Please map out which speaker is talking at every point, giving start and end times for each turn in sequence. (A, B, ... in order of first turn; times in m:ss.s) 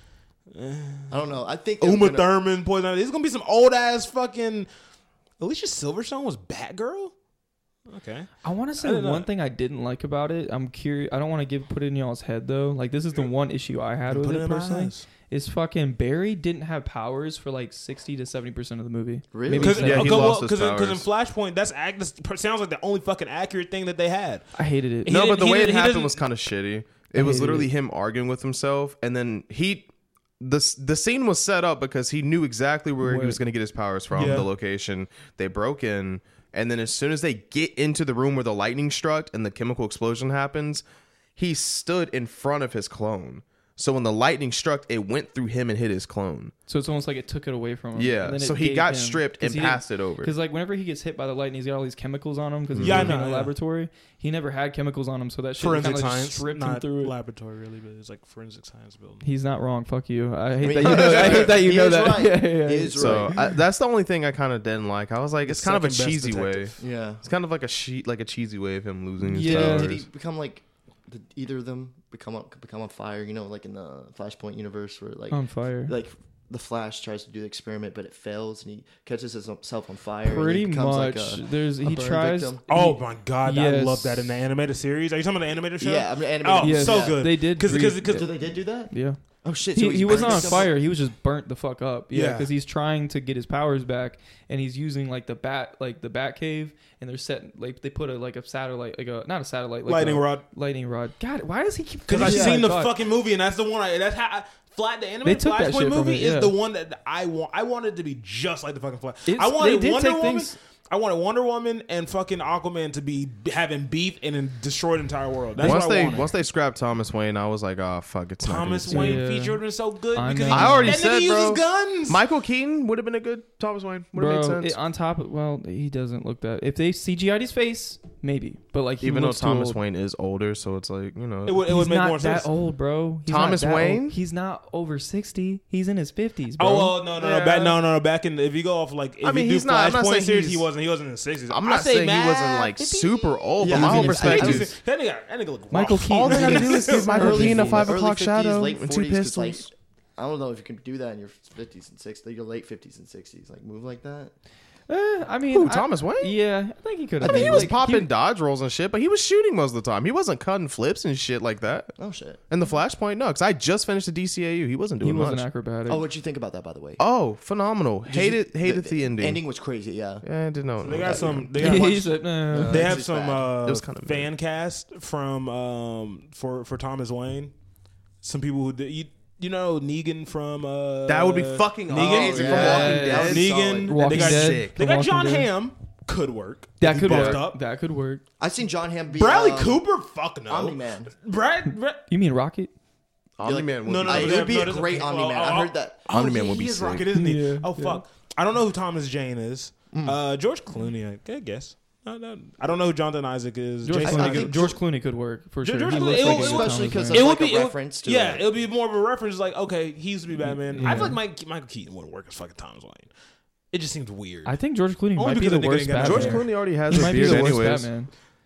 0:00.5-0:01.2 A
0:01.1-0:02.3 B
0:01.8-0:04.7 A
0:05.4-0:07.1 A
0:07.9-0:09.3 A
0:08.4-0:20.4 C
0:14.1-0:15.0 A
0:19.3-0:20.0 B
0:19.5-0:21.0 D
0:19.6-0:24.5 A
0:24.5-0:25.1 C
0:25.0-0:26.2 A
0:25.1-0:29.9 D
0:27.1-0:27.7 C
0:30.4-0:40.8 D
0:33.0-0:33.4 C
0:34.1-0:34.5 A
0:41.4-0:46.5 D
0:46.7-0:57.1 C
0:48.0-0:50.3 D
0:52.7-0:53.1 D
0:52.8-0:53.5 A
0:55.6-0:59.2 A
0:59.2-1:03.5 C
1:00.6-1:03.4 B
1:00.8-1:01.4 D
1:02.9-1:10.0 D
1:05.4-1:06.8 A
1:06.8-1:07.2 B
1:09.2-1:10.0 C
1:09.4-1:22.6 B
1:15.3-1:15.9 C
1:20.2-1:24.4 C
1:22.7-1:28.3 A
1:25.8-1:27.2 B
1:26.6-1:28.3 C
1:28.0-1:28.9 B
1:28.9-1:29.2 C
1:29.4-1:30.7 B
1:29.7-1:42.9 C
1:30.1-1:30.6 A
1:32.1-1:32.5 A
1:39.9-1:40.4 A
1:42.1-1:56.3 A
1:42.2-1:42.6 B
1:45.2-1:46.5 C
1:49.3-1:50.6 C
1:55.6-1:56.2 C
1:55.6-1:59.2 D
1:58.4-2:02.2 A
1:58.9-1:59.6 C
2:00.1-2:01.1 C
2:00.5-2:04.8 D
2:04.1-2:09.8 C
2:09.0-2:11.6 D
2:11.4-2:12.5 A
2:11.7-2:17.0 C
2:13.3-2:14.2 D
2:16.6-2:27.6 A
2:17.2-2:17.7 D
2:19.2-2:20.7 D
2:21.5-2:24.7 D
2:23.6-2:24.7 B
2:25.7-2:27.9 C
2:26.0-2:29.7 D
2:27.1-2:34.3 B
2:34.9-2:38.1 C
2:35.5-2:36.4 D
2:37.2-2:37.8 B
2:37.2-2:41.9 D
2:42.0-2:42.4 B
2:42.5-2:45.4 D
2:45.0-2:46.0 C
2:45.9-2:47.0 B
2:47.0-2:49.4 D
2:48.0-2:50.2 B
2:50.2-2:51.5 D
2:50.8-2:57.5 A
2:51.0-2:53.5 B
2:51.6-2:53.0 C
2:53.6-2:54.3 D
2:58.2-3:07.6 A
3:01.1-3:04.8 D
3:01.9-3:04.0 B
3:02.4-3:05.5 C
3:06.8-3:08.2 C
3:07.1-3:07.4 B
3:08.4-3:09.8 B
3:09.1-3:12.0 A
3:10.5-3:11.1 B
3:12.1-3:12.7 C
3:13.4-3:14.6 D
3:13.4-3:16.2 B
3:13.8-3:24.7 A
3:16.1-3:17.1 D
3:17.1-3:18.0 C
3:19.9-3:20.2 B
3:23.8-3:27.3 C
3:24.0-3:24.8 B
3:25.6-3:33.1 A
3:25.9-3:28.4 B
3:30.4-3:31.2 C
3:33.7-3:34.6 A
3:34.4-3:38.1 C
3:35.1-3:37.7 A
3:36.0-3:37.9 D